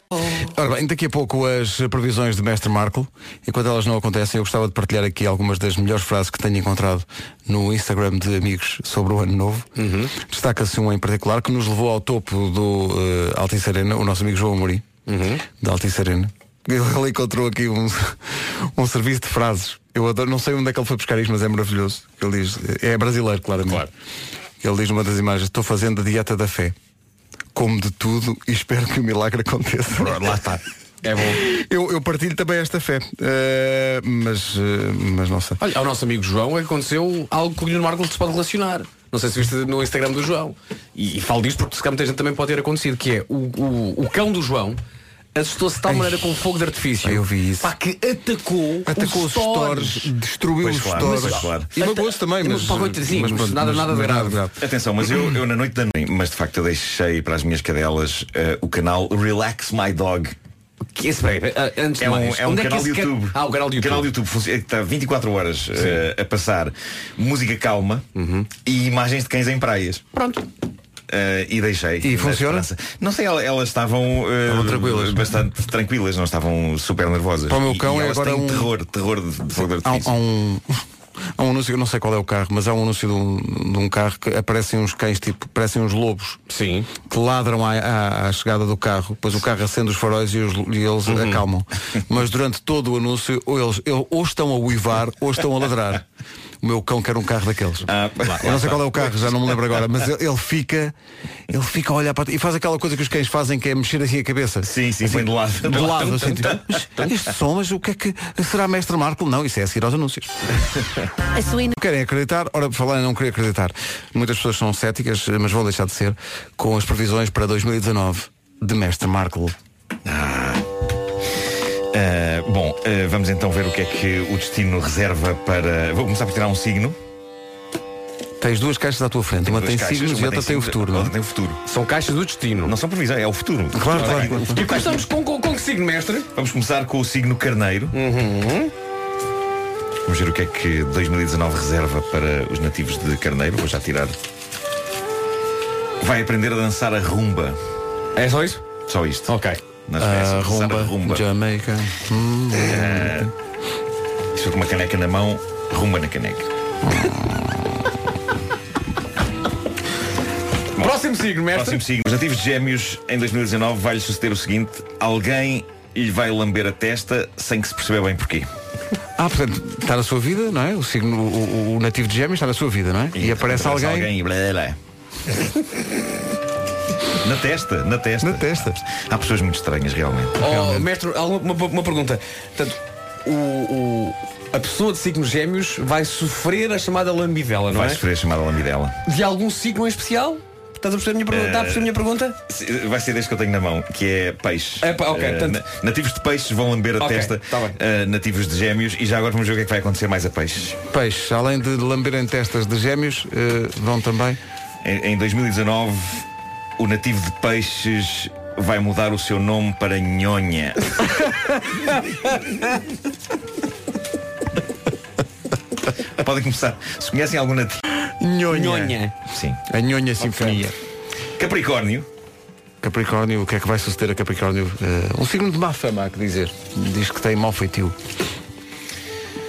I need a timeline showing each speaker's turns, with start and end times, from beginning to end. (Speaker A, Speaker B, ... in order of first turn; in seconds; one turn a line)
Speaker A: 0.4-14.9
Speaker B: 9.8-10.1
Speaker B: 15.1-15.4
Speaker A: 15.5-23.9
Speaker A: 24.6-26.8
Speaker A: 27.6-30.4
Speaker B: 30.0-31.4
Speaker A: 31.4-35.6
Speaker B: 35.6-44.8
Speaker B: 45.4-50.1
Speaker A: 45.9-46.2
Speaker A: 47.0-47.7
Speaker A: 48.9-54.6
Speaker C: 50.6-51.7
Speaker B: 51.0-54.4
Speaker C: 54.6-60.4
Speaker B: 61.0-64.1
Speaker C: 62.0-68.1
Speaker B: 68.2-68.5
Speaker C: 68.6-70.0
Speaker B: 70.1-70.4
Speaker C: 71.1-80.1
Speaker A: 72.0-72.7
Speaker A: 74.5-75.2
Speaker A: 77.5-78.7
Speaker A: 79.6-80.8
Speaker A: 81.4-86.4
Speaker B: 86.5-86.9
Speaker A: 87.1-96.0
Speaker B: 91.1-91.4
Speaker A: 96.6-100.9
Speaker C: 97.9-99.3
Speaker A: 101.5-110.3
Speaker C: 104.6-106.6
Speaker B: 105.8-107.1
Speaker A: 111.7-119.5
Speaker C: 120.0-120.6
Speaker C: 121.9-127.0
Speaker A: 128.4-131.1
Speaker C: 129.4-131.6
Speaker B: 131.7-132.8
Speaker C: 132.6-135.0
Speaker A: 133.7-134.6
Speaker B: 133.9-136.3
Speaker C: 136.3-138.0
Speaker B: 137.9-138.7
Speaker C: 140.1-144.2
Speaker C: 146.0-147.6
Speaker B: 148.2-148.6
Speaker C: 148.9-149.3
Speaker B: 149.3-149.6
Speaker C: 149.9-151.2
Speaker A: 150.0-153.3
Speaker C: 152.6-153.3
Speaker C: 154.3-156.5
Speaker A: 156.8-157.5
Speaker B: 160.8-161.8
Speaker C: 161.5-168.5
Speaker A: 169.2-174.1
Speaker C: 173.2-174.8
Speaker C: 177.2-180.4
Speaker A: 178.2-178.8
Speaker B: 180.4-188.0
Speaker A: 180.4-180.9
Speaker C: 187.7-189.0
Speaker B: 189.1-192.4
Speaker C: 191.3-191.9
Speaker C: 192.5-200.8
Speaker B: 194.8-195.6
Speaker B: 197.0-197.8
Speaker A: 200.9-204.4
Speaker C: 204.8-206.2
Speaker C: 206.8-210.8
Speaker C: 216.2-217.8
Speaker A: 218.2-219.0
Speaker B: 218.5-219.2
Speaker C: 219.3-219.6
Speaker A: 219.7-220.7
Speaker C: 221.4-222.1
Speaker A: 222.8-228.0